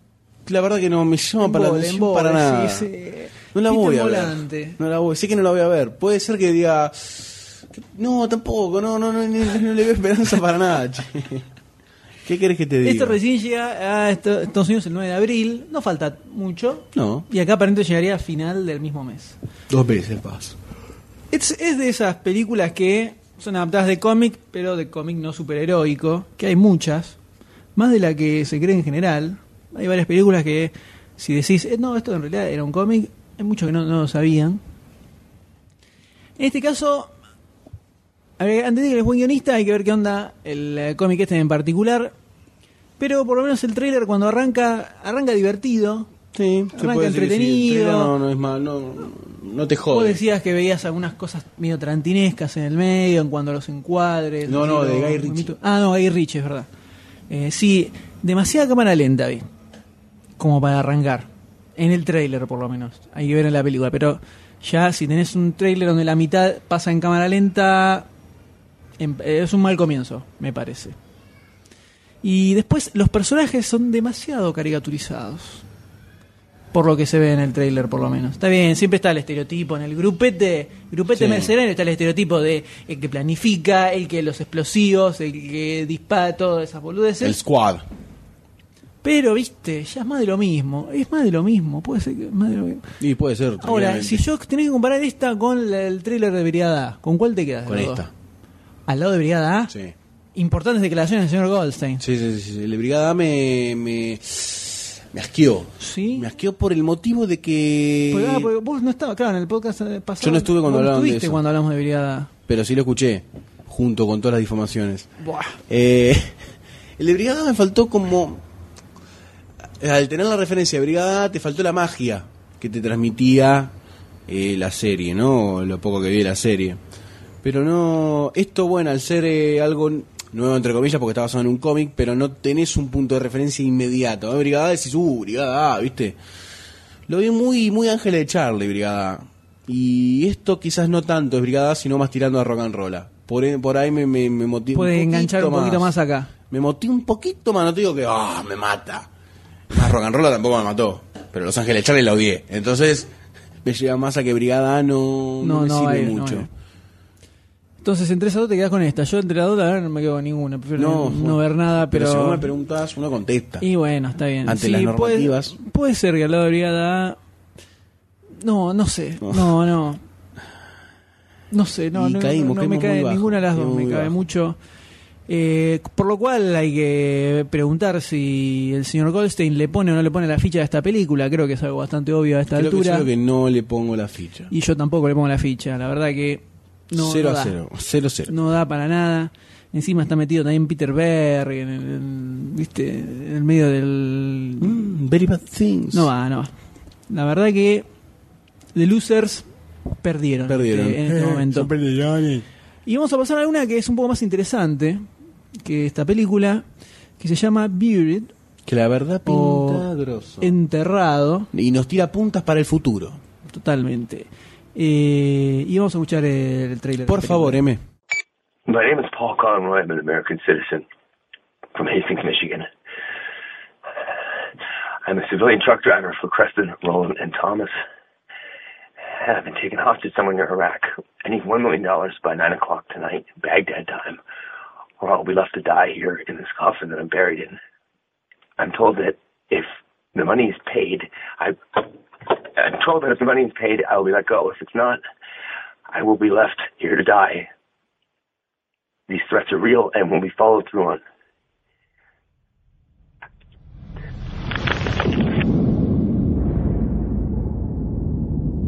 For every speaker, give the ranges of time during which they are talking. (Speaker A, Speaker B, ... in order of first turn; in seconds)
Speaker A: 0.5-2.9, 3.5-11.4, 12.2-13.2, 16.9-17.3, 19.7-20.6, 46.3-50.2, 54.5-55.5, 81.1-81.5, 87.2-87.8, 93.0-94.3, 97.7-98.1, 99.7-100.0, 102.0-108.5, 110.2-111.4, 112.5-115.1, 115.7-116.4, 117.0-118.4, 119.8-123.7, 124.3-126.8, 127.4-136.2, 137.1-145.9, 146.5-149.1, 149.7-153.1, 153.6-156.5, 160.8-163.7, 164.4-165.6, 169.2-169.5, 171.9-174.2, 182.5-184.5, 186.9-188.4, 194.6-196.1, 200.5-202.4, 208.7-210.6, 211.5-213.2, 217.1-217.8
Speaker B: 1.4-4.8, 12.8-19.4, 21.3-27.2, 27.8-34.6, 36.4-37.1, 38.4-42.1, 43.0-46.1, 46.8-48.1, 49.9-56.7, 57.3-59.5, 60.4-68.1, 69.0-71.0, 72.2-75.6, 76.7-87.4, 89.0-92.9, 93.6-98.0, 98.9-99.7, 100.3-102.0, 105.8-106.3, 108.1-112.3, 115.2-115.6, 144.7-146.3, 155.4-156.5, 157.8-162.5, 163.6-167.2, 168.4-170.0, 171.5-174.6, 175.3-183.1, 184.5-187.6, 188.3-194.8, 195.9-196.5, 197.1-197.9, 198.8-199.5, 200.0-201.7, 202.9-205.0, 205.6-206.7, 207.2-208.3, 209.3-209.9, 210.4-211.5, 213.5-217.6
Speaker C: 218.7-220.8, 221.7-222.7, 225.1-227.8, 229.1-234.2, 235.0-237.6, 238.6-245.0, 245.9-247.5, 249.1-251.0